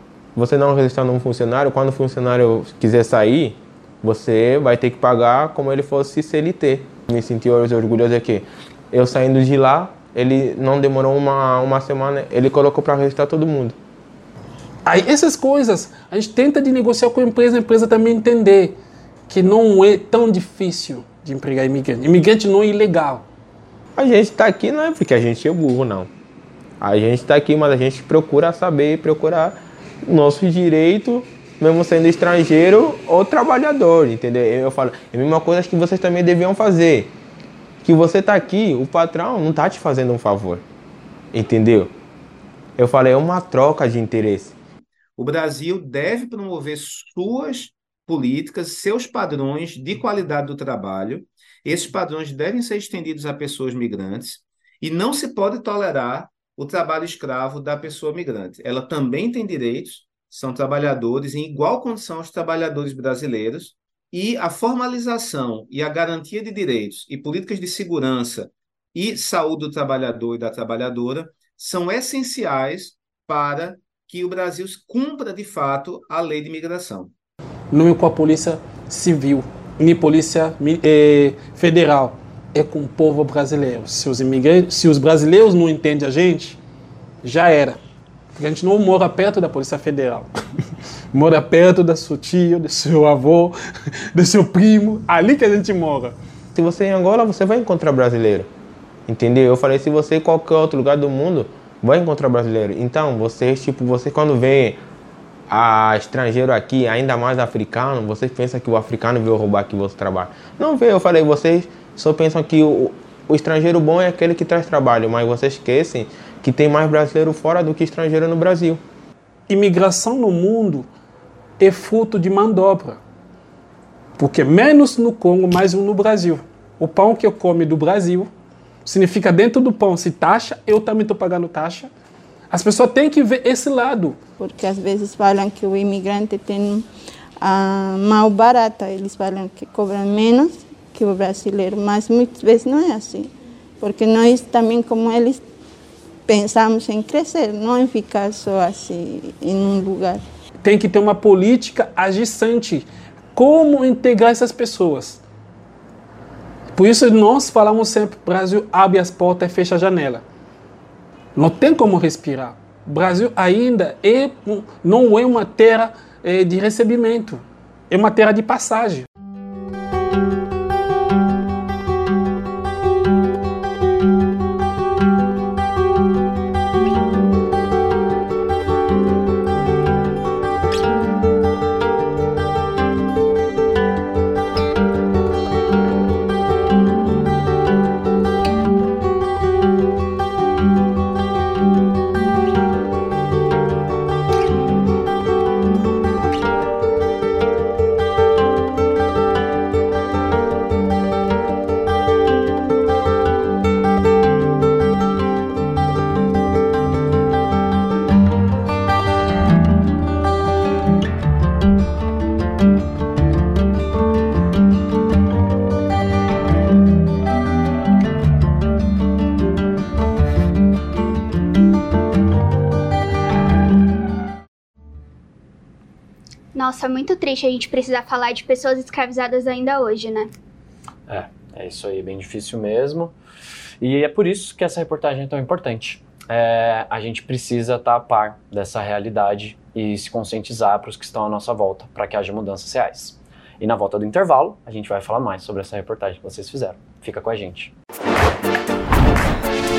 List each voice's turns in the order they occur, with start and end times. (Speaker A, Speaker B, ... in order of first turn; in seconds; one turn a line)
Speaker A: 0.3-13.8
Speaker B: 14.8-18.8
Speaker B: 19.3-23.2
Speaker A: 23.9-26.1
Speaker A: 26.8-37.1
Speaker A: 37.8-40.6
Speaker A: 41.3-41.9
Speaker A: 42.8-44.6
Speaker C: 45.2-77.1
Speaker B: 77.7-86.6
Speaker B: 87.2-87.8
Speaker B: 88.3-90.3
Speaker B: 91.1-93.5
Speaker B: 94.1-96.2
Speaker A: 96.5-98.5
Speaker A: 99.1-104.8
Speaker A: 105.5-118.8
Speaker B: 119.5-120.9
Speaker B: 121.6-123.0
Speaker B: 124.2-128.3
Speaker B: 128.8-131.9
Speaker B: 132.5-134.2
Speaker D: 134.4-136.8
Speaker D: 137.4-145.4
Speaker D: 146.3-150.2
Speaker B: 150.6-155.2
Speaker B: 156.7-160.2
Speaker B: 161.3-169.1
Speaker E: 226.5-230.3
Speaker F: 231.1-233.1
Speaker F: 233.8-247.7